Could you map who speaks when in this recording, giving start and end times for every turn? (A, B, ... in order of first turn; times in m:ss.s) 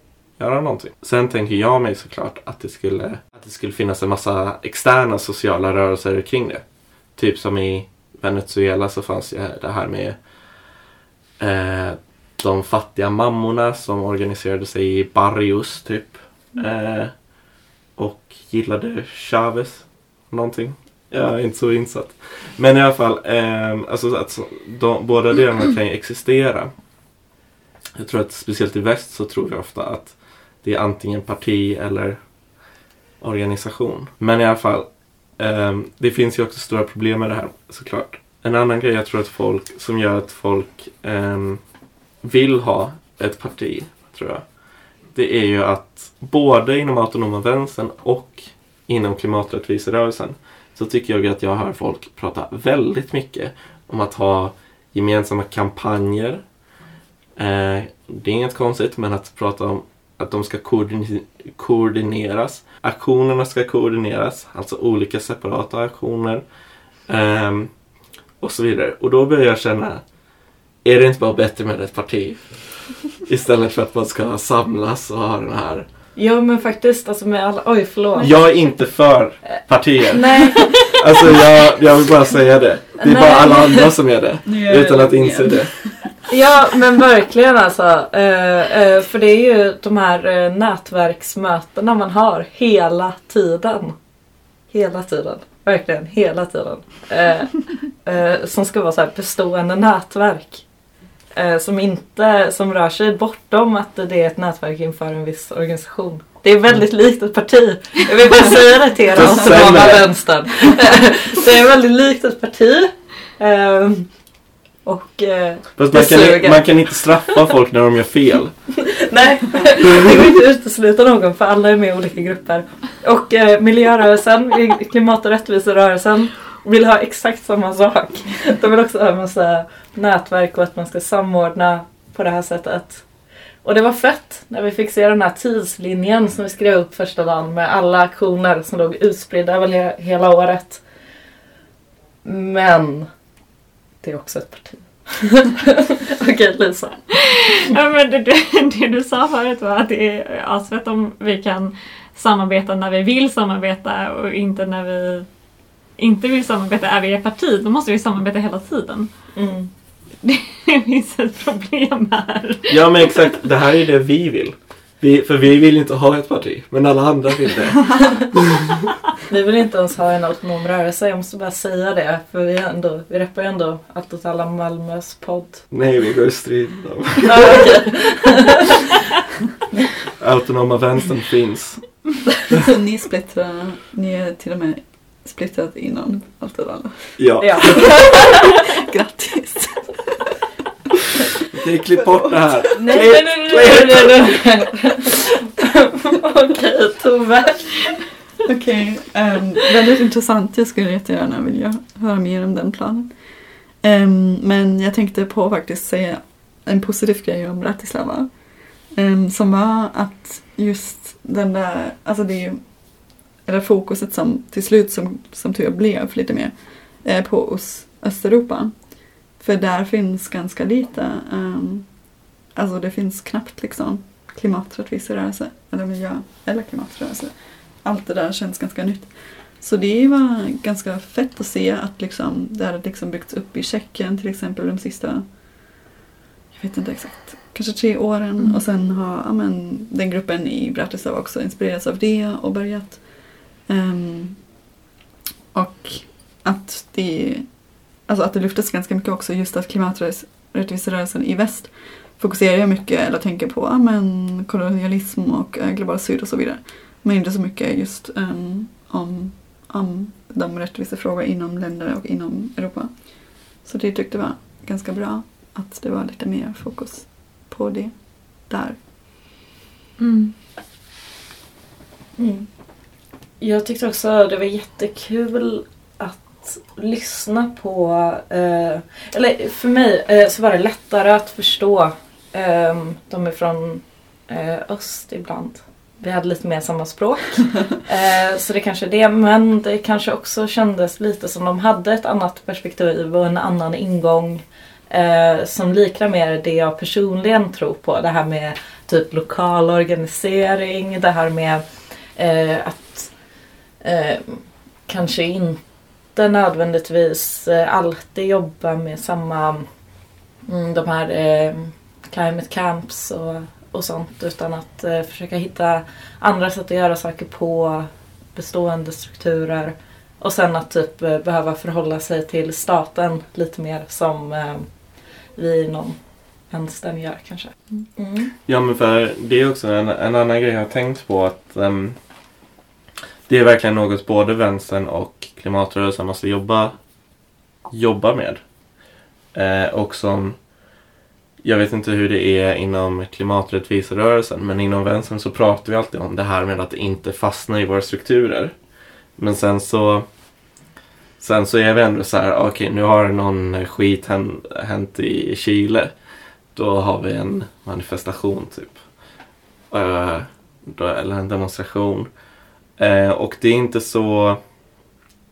0:00.4-0:06.6 A
0:07.2-0:10.2 A
0:11.4-0:17.1 A
0:18.0-0:26.7 A
0:28.0-0:32.2 A
0:33.2-0:41.6 A
0:42.2-0:44.4 A
0:45.1-0:56.4 A
0:57.4-1:06.4 A
1:07.1-1:07.7 A
1:08.4-1:10.0 A
1:10.8-1:15.9 A
1:16.2-1:18.4 B
1:18.2-1:25.7 A
1:20.1-1:21.5 B
1:23.0-1:24.0 B
1:24.4-1:26.1 C
1:26.3-1:34.0 B
1:34.7-1:40.6 B
1:41.3-1:54.1 B
1:49.1-1:50.1 A
1:54.8-1:56.7 B
1:55.8-1:58.5 A
1:58.7-2:13.0 B
2:13.6-2:20.8 B
2:22.2-2:23.1 B
2:24.0-2:27.0 B
2:27.1-2:35.3 D
2:36.0-2:39.1 D
2:39.3-2:39.7 B
2:40.2-2:43.3 D
2:42.7-2:48.4 A
2:49.2-2:55.6 B
2:55.7-2:57.9 A
2:57.2-2:58.8 B
3:00.2-3:02.0 A
3:02.6-3:10.2 C
3:07.2-3:08.0 A
3:07.4-3:08.4 B
3:11.5-3:14.2 A
3:11.9-3:12.7 C
3:12.7-3:17.8 B
3:18.4-3:23.1 C
3:23.8-3:28.3 C
3:28.9-3:32.6 C
3:33.4-3:38.7 C
3:39.4-3:41.9 C
3:42.6-3:47.3 C
3:47.8-3:55.2 C
3:56.5-4:03.0 C
4:03.7-4:04.4 C
4:05.5-4:07.5 C
4:08.0-4:22.9 C
4:23.6-4:28.8 C
4:30.0-4:30.3 D
4:32.2-4:32.5 B
4:33.4-5:03.1 B
5:03.8-5:05.6 B
5:06.1-5:09.7 B
5:10.4-5:24.7 B
5:25.3-5:26.0 B
5:26.5-5:28.3 B
5:28.4-5:32.0 A
5:33.3-5:36.7 A
5:37.7-5:38.4 A
5:39.3-5:40.4 A
5:41.4-5:48.5 A
5:49.2-5:50.0 A
5:51.2-5:55.9 A
5:56.5-5:58.8 A
5:59.7-6:02.1 A
6:02.8-6:04.4 A